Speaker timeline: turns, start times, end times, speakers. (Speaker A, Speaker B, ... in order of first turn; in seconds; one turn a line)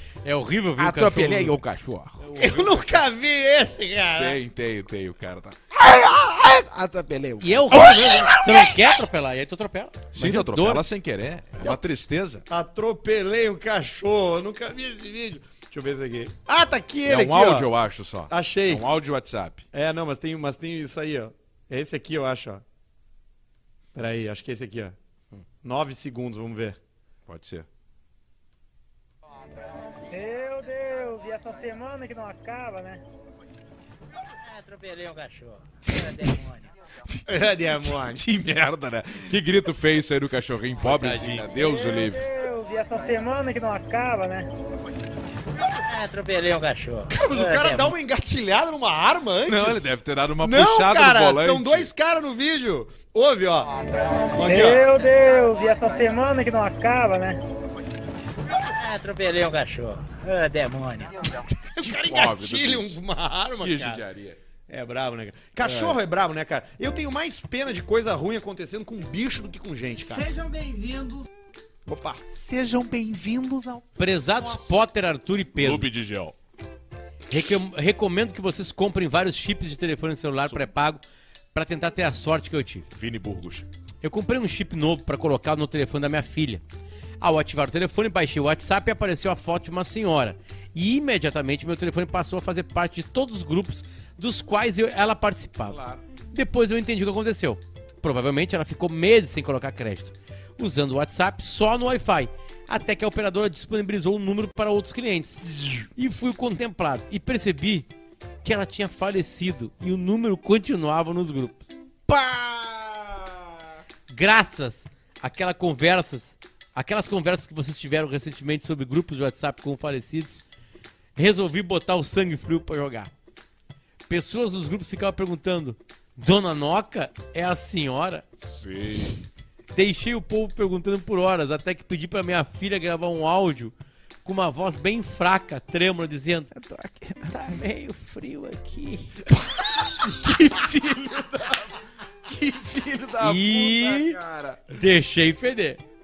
Speaker A: 0.2-1.6
Speaker B: 0.8-2.8
Speaker A: 2.3-2.7
Speaker C: 2.4-4.4
Speaker B: 4.1-7.9
Speaker A: 7.4-10.8
Speaker C: 7.7-8.4
Speaker B: 10.1-12.4
Speaker C: 12.5-17.7
Speaker B: 17.1-19.6
Speaker C: 18.3-18.9
Speaker C: 19.7-22.6
Speaker C: 23.9-24.9
Speaker C: 25.6-26.8
Speaker B: 27.3-27.6
Speaker D: 30.1-33.0
Speaker D: 34.3-36.7
Speaker B: 37.1-42.2
Speaker C: 37.3-38.2
Speaker D: 37.8-38.1
Speaker A: 40.8-41.5
Speaker D: 41.5-44.5
Speaker D: 45.8-47.9
Speaker C: 47.1-54.8
Speaker B: 49.5-51.9
Speaker D: 54.4-57.4
Speaker D: 58.7-61.2
Speaker C: 61.3-64.0
Speaker B: 61.8-63.0
Speaker B: 63.6-64.4
Speaker C: 64.7-70.8
Speaker B: 65.6-66.0
Speaker C: 71.8-74.7
Speaker A: 74.0-75.9
Speaker B: 75.6-76.3
Speaker A: 77.3-81.0
Speaker A: 81.5-82.8
Speaker B: 82.9-83.7
Speaker A: 84.0-86.6
Speaker A: 87.2-95.8
Speaker B: 95.7-96.0
Speaker A: 96.3-107.9
Speaker A: 108.4-111.7
Speaker B: 112.1-113.2
Speaker A: 114.1-120.4
Speaker A: 121.2-123.1
Speaker A: 124.1-128.2
Speaker B: 128.4-129.2
Speaker A: 129.7-136.5
Speaker B: 136.5-137.5
Speaker A: 137.3-139.3
Speaker B: 139.6-144.7
Speaker A: 143.2-144.2
Speaker A: 144.7-145.8